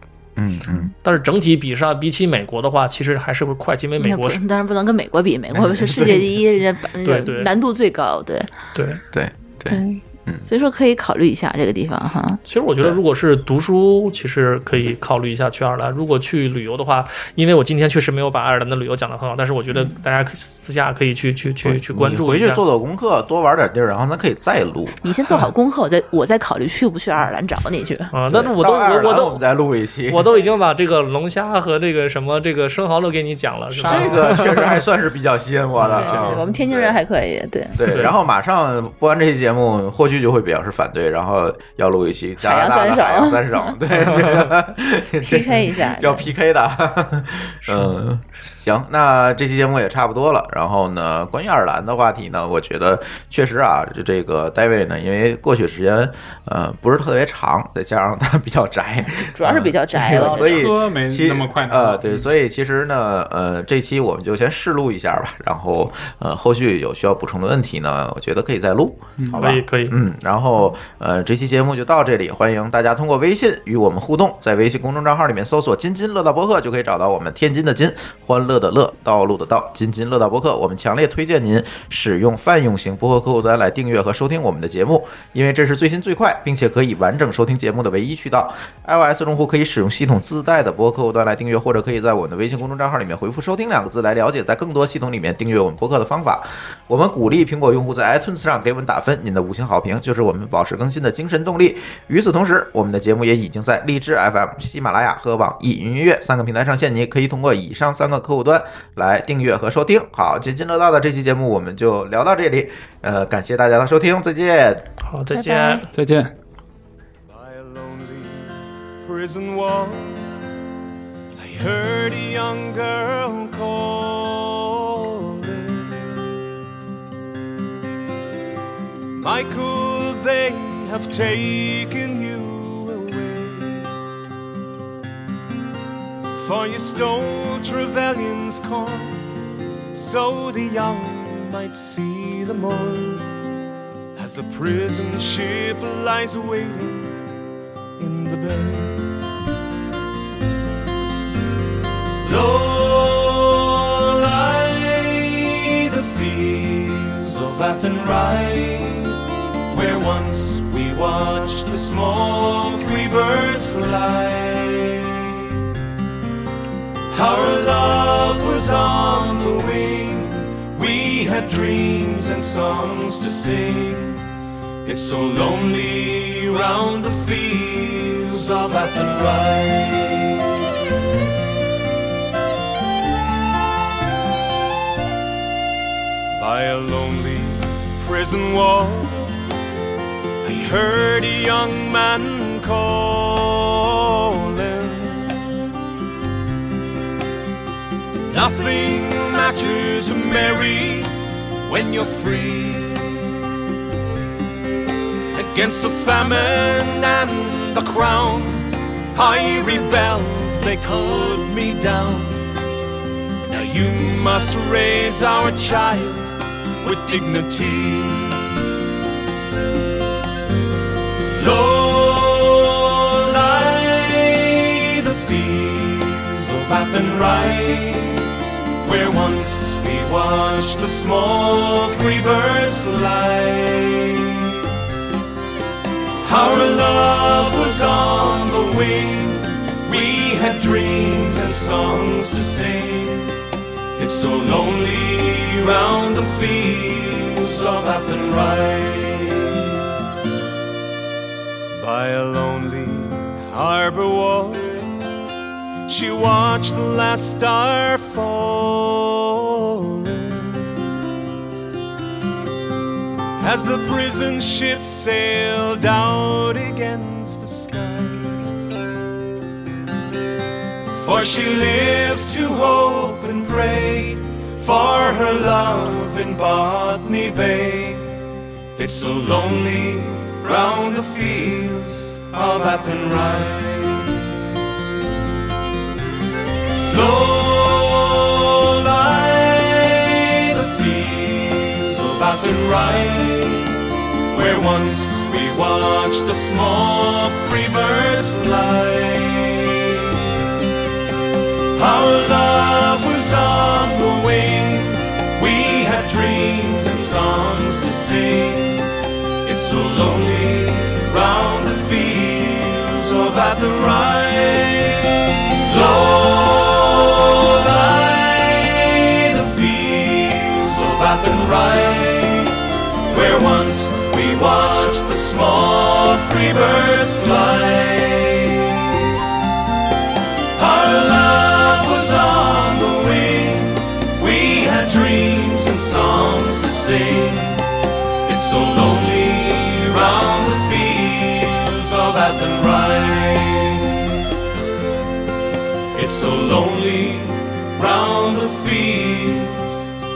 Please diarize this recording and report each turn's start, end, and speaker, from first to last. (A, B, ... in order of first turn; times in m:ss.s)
0:00.4-0:00.9 A
0:01.0-0:04.4 B
0:04.0-0:08.5 C
0:05.5-0:06.3 A
0:07.0-0:07.5 B
0:08.7-0:09.0 B
0:09.1-0:10.4 A
0:09.6-0:12.4 C
0:12.5-0:22.6 B
0:21.6-0:25.0 A
0:25.0-0:28.1 C
0:28.1-0:29.4 B
0:28.3-0:30.3 A
0:30.1-0:34.8 B
0:33.8-0:34.2 C
0:33.8-0:37.0 A
0:35.9-0:36.3 B
0:35.9-0:37.8 C
0:37.7-1:54.8 A
0:37.9-0:38.1 B
0:42.4-0:43.8 C
0:45.2-0:46.3 C
0:47.6-0:47.9 B
0:59.3-1:00.7 C
1:00.0-1:02.3 D
1:09.2-1:09.6 D
1:09.3-1:09.9 B
1:55.0-1:55.9 B
1:55.3-1:55.9 C
1:55.9-1:56.3 D
1:57.3-2:00.3 E
2:01.4-2:06.4 E
2:09.2-2:13.9 E
2:16.3-2:19.3 E
2:19.9-2:23.3 E
2:24.2-2:27.2 E
2:28.0-2:29.2 E
2:32.2-2:39.2 E
2:39.7-2:45.6 E
2:47.1-2:54.2 E
2:54.8-3:00.5 E
3:06.3-3:09.3 E
3:10.4-3:15.4 E
3:18.3-3:21.1 E
3:21.6-3:23.2 E
3:25.3-3:32.4 E
3:33.4-3:38.4 E
3:41.3-3:48.3 E
3:48.8-3:54.6 E
3:56.2-4:03.3 E
4:04.0-4:09.8 E
4:11.8-4:14.9 E
4:15.9-4:20.7 E
4:23.4-4:28.5 E
4:30.9-4:38.2 E
4:38.8-4:44.3 E
4:46.8-5:00.3 E
5:01.7-5:08.9 E
5:09.4-5:22.6 E
5:23.1-5:29.1 E
5:30.6-5:37.7 E
5:38.2-5:44.1 E
5:45.9-5:49.9 E